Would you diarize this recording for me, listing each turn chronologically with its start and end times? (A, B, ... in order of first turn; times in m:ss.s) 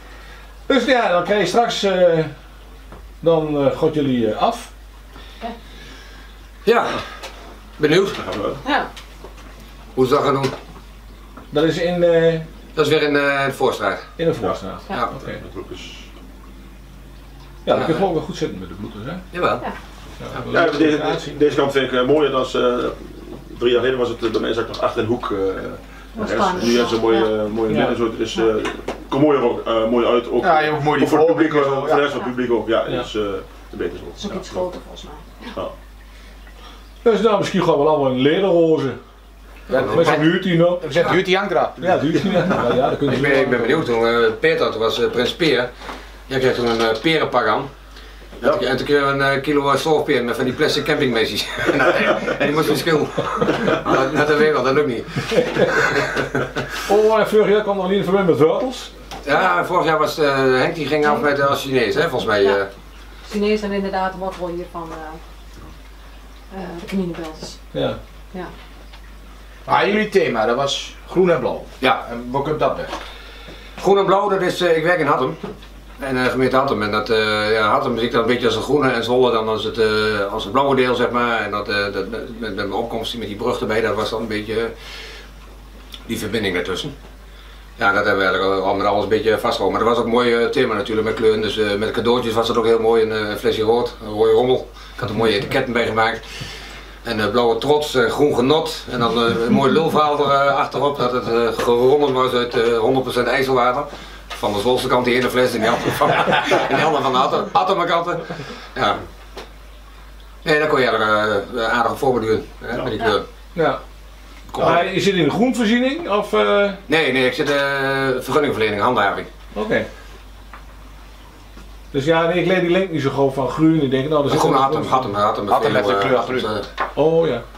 0:00.7-0:02.3 A
0:03.2-0:04.7 A
0:06.6-0:07.0 B
0:07.8-0:08.2 B
0:08.1-0:08.6 C
0:08.6-0:08.9 D
0:09.9-0:10.5 B
0:11.5-0:12.4 A
0:12.7-0:14.1 B
0:14.2-0:15.4 A
0:15.2-0:16.1 C
0:17.6-0:19.2 A
0:17.7-0:18.0 B
0:19.3-0:19.6 B
0:20.2-0:21.3 A
0:20.5-0:34.6 C
0:26.1-0:27.3 D
0:27.7-0:28.0 A
0:30.4-0:32.2 E
0:34.2-0:35.5 D
0:37.0-0:39.0 A
0:39.7-0:42.2 E
0:39.7-0:40.1 B
0:39.8-0:41.1 A
0:41.8-0:43.8 A
0:43.0-0:45.7 B
0:46.3-0:47.7 B
0:48.4-0:56.5 B
0:55.3-0:55.7 A
0:56.8-0:58.9 A
0:59.2-1:02.7 B
1:03.2-1:05.2 D
1:06.5-1:07.6 D
1:07.7-1:08.0 A
1:09.6-1:12.9 E
1:13.8-1:15.4 B
1:16.0-1:24.7 B
1:26.0-1:26.9 B
1:27.8-1:36.4 B
1:37.0-1:49.0 B
1:50.4-1:53.2 B
1:53.5-1:53.8 A
1:54.5-1:54.8 B
1:54.6-1:56.8 A
1:56.9-1:59.3 B
1:59.5-1:59.9 A
2:01.9-2:05.1 A
2:04.3-2:06.7 B
2:05.5-2:06.5 E
2:07.0-2:07.4 A